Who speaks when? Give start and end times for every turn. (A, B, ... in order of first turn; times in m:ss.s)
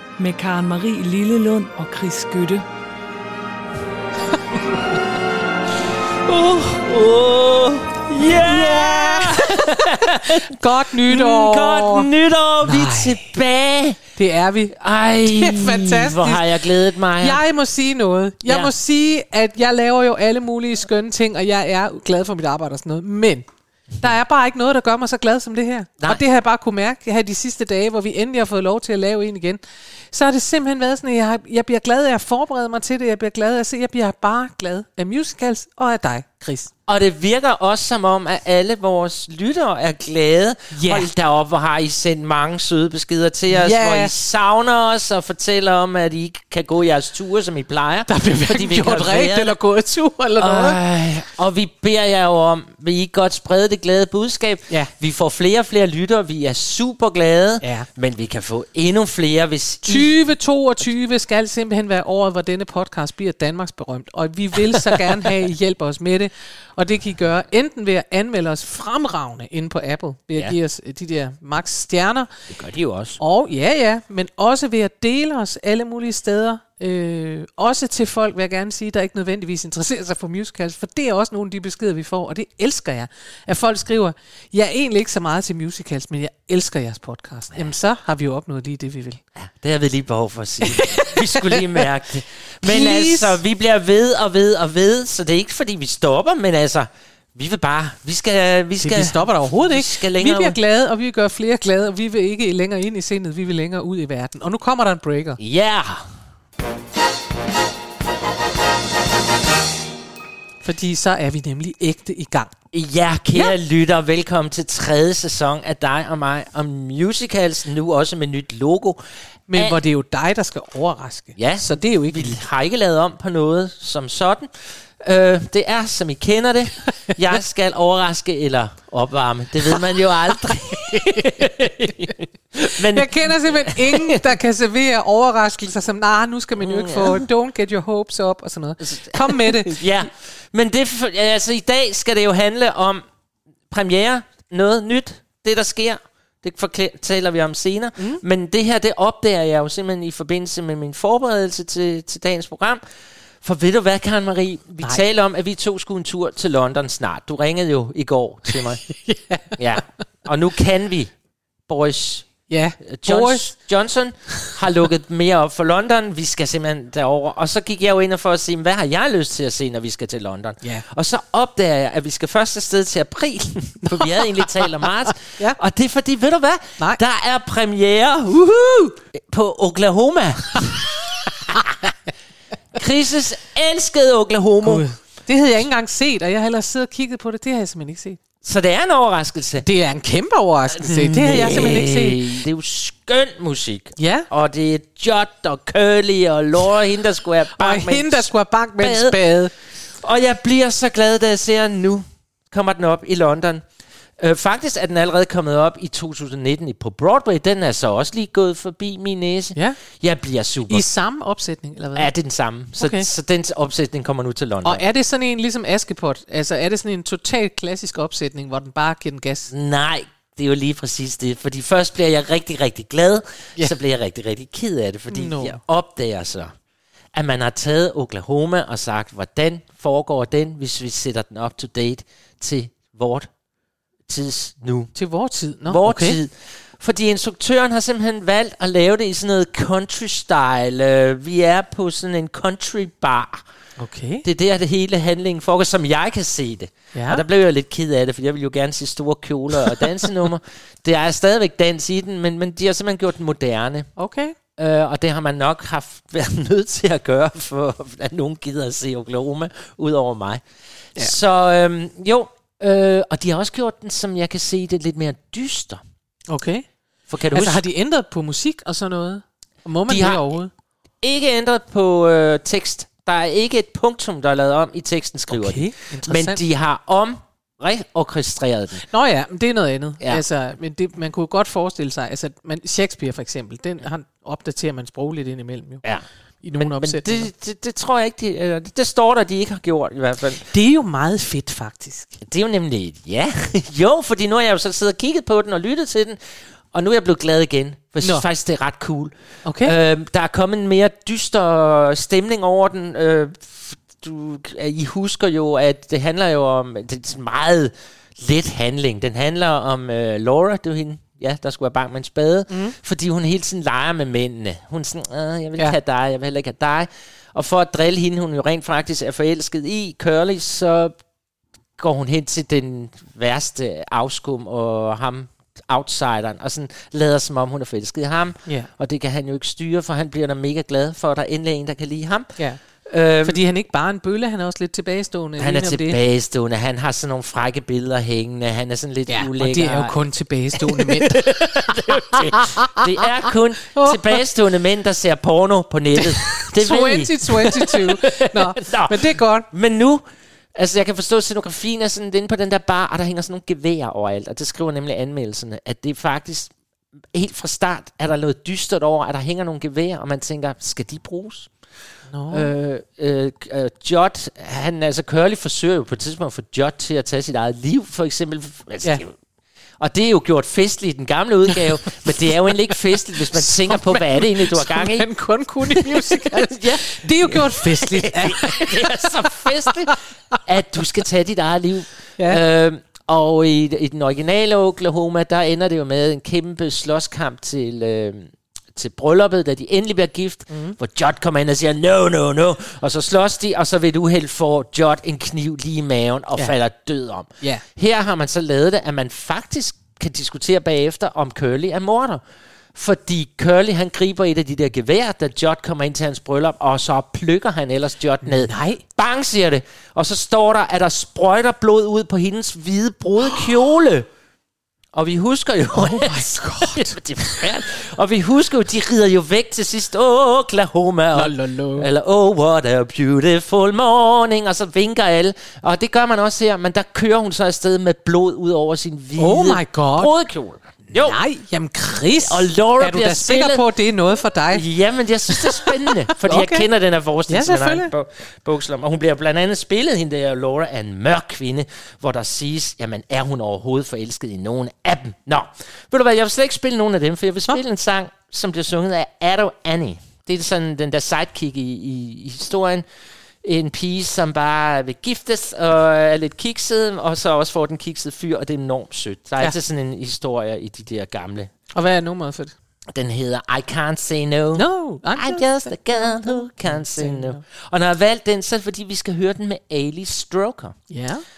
0:00.2-0:02.6 A
0:06.3-0:10.5 B
0:08.3-0:12.1 C
0:11.0-0:14.0 B
0:12.6-0:13.4 C
0:14.2-0:16.4 C
0:14.8-0:17.4 B
0:17.2-0:23.5 C
0:18.5-0:18.7 B
0:24.0-0:29.6 C
0:30.1-0:36.7 C
0:36.9-0:49.6 B
0:40.7-0:41.1 C
0:43.5-0:44.1 C
0:48.1-0:50.8 C
0:50.4-1:00.1 B
0:57.6-0:57.9 C
0:59.9-1:12.3 C
1:12.5-1:13.2 B
1:13.2-1:29.2 C
1:29.4-1:40.6 B
1:30.6-1:31.8 C
1:32.6-1:33.4 C
1:38.8-1:45.4 C
1:45.4-1:46.1 B
1:50.6-1:52.5 C
1:52.7-1:59.0 B
1:59.5-2:02.4 C
1:59.5-1:59.8 B
2:01.4-2:14.2 B
2:12.8-2:20.0 C
2:16.6-2:17.2 B
2:18.8-2:23.0 B
2:23.7-2:32.8 B
2:33.4-2:38.9 B
2:39.0-2:39.8 C
2:39.5-2:41.1 B
2:41.7-3:00.9 B
2:42.5-2:43.5 C
2:53.9-2:54.7 C
2:55.2-2:55.6 C
3:02.8-3:04.9 B
3:04.6-3:08.2 C
3:08.4-3:09.7 B
3:09.6-3:12.4 C
3:10.7-3:19.2 B
3:14.0-3:14.3 C
3:17.6-3:19.5 C
3:19.8-3:23.7 B
3:24.2-3:30.9 B
3:30.7-3:32.1 C
3:32.0-3:34.8 B
3:32.8-3:33.1 C
3:34.6-3:39.5 C
3:39.5-3:46.6 B
3:45.1-3:45.6 C
3:47.1-3:53.3 B
3:54.1-3:54.9 B
3:55.0-3:56.2 C
3:55.7-4:03.4 B
4:03.8-4:04.3 C
4:04.2-4:13.9 B
4:06.9-4:07.2 C
4:14.0-4:14.4 C
4:14.6-4:20.4 B
4:21.0-4:25.8 B
4:26.3-4:26.7 C
4:27.1-4:27.6 B
4:27.3-4:30.5 C
4:29.9-4:30.4 B
4:31.0-4:38.9 B
4:35.3-4:36.4 C
4:38.9-4:45.8 C
4:45.8-4:50.5 B
4:46.4-4:47.3 C
4:50.5-4:52.2 C
4:52.2-5:21.0 B
4:58.0-4:58.3 C
4:59.4-4:59.7 C
5:12.5-5:12.8 C
5:21.8-5:33.4 B
5:32.4-5:36.0 C
5:35.4-5:40.0 B
5:39.1-5:41.9 C
5:40.6-5:56.5 B
5:42.7-5:43.0 C
5:43.7-5:44.2 C
5:46.0-5:49.5 C
5:57.1-6:01.5 B
6:02.1-6:02.5 C
6:02.3-6:09.2 B
6:09.8-6:15.1 B
6:13.3-6:19.1 C
6:15.7-6:42.2 B
6:30.5-6:30.8 C
6:42.8-6:54.1 B
6:48.2-6:48.8 C
6:54.9-7:11.2 B
6:55.7-6:57.4 C
7:01.1-7:01.9 C
7:09.2-7:10.1 C
7:10.9-7:14.6 C
7:12.2-7:13.7 B
7:14.5-7:32.9 B
7:15.3-7:16.7 C
7:17.3-7:17.9 C
7:33.4-7:41.5 B
7:41.7-7:42.6 C
7:42.9-7:50.8 B
7:44.6-7:47.4 C
7:50.9-7:51.2 C